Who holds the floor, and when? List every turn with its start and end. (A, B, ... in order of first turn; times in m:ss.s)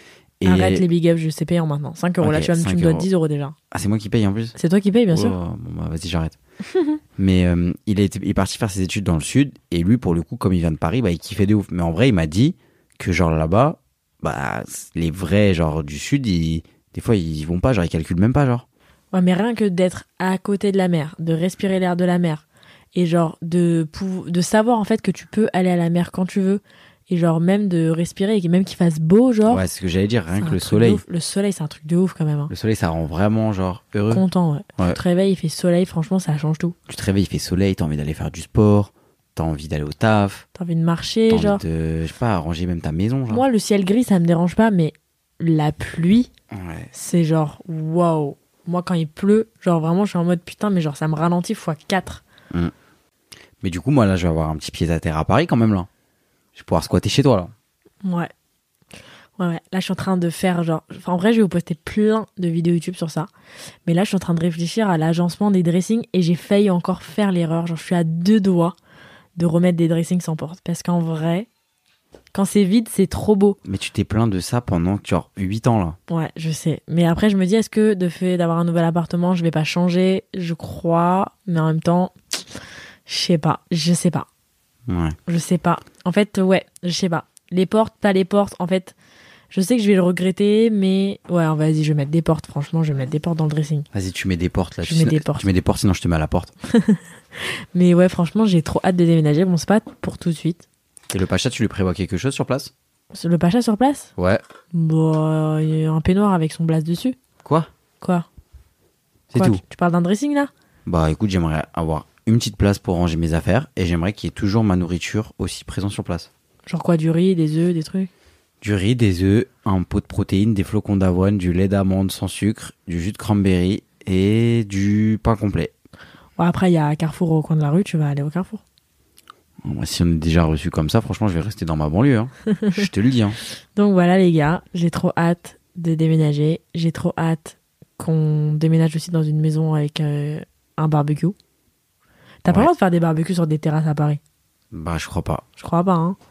0:00.4-0:00.8 A
0:00.4-0:03.6 B
0:02.2-0:03.1 A
0:03.7-0:04.6 A
0:04.6-0:05.4 B
0:05.1-0:06.4 A
0:07.2-0:18.6 A
0:19.1-0:29.6 B
0:29.5-0:31.0 A
0:30.4-0:32.5 B
0:32.5-0:34.2 A
0:34.1-0:36.8 B
0:36.9-0:40.4 A
0:40.6-0:41.6 B
0:41.3-0:43.4 A
0:43.3-0:46.3 B
0:46.5-0:46.9 A
0:46.9-0:52.2 B
0:53.6-0:55.9 A
0:56.6-0:57.5 A
0:58.0-0:58.3 B
0:59.4-1:03.3 B
1:03.9-1:08.8 B
1:09.4-1:11.5 B
1:12.3-1:13.6 B
1:13.6-1:16.0 A
1:16.1-1:22.4 B
1:23.1-1:24.3 B
1:24.9-1:25.2 A
1:25.3-1:29.0 B
1:29.5-1:33.9 B
1:33.9-1:36.5 A
1:34.8-1:35.5 B
1:36.7-1:40.6 B
1:41.1-1:42.7 A
1:43.1-1:44.1 B
1:44.2-1:44.4 A
1:44.7-1:47.2 B
1:48.0-1:48.3 B
1:49.3-1:49.6 A
1:49.3-1:50.5 B
1:50.9-1:56.3 A
1:56.7-1:58.1 B
1:58.6-2:05.7 A
2:06.4-2:08.6 B
2:09.6-2:13.4 A
2:13.8-2:21.4 B
2:22.4-2:24.2 B
2:24.7-2:25.4 A
2:25.6-2:26.2 B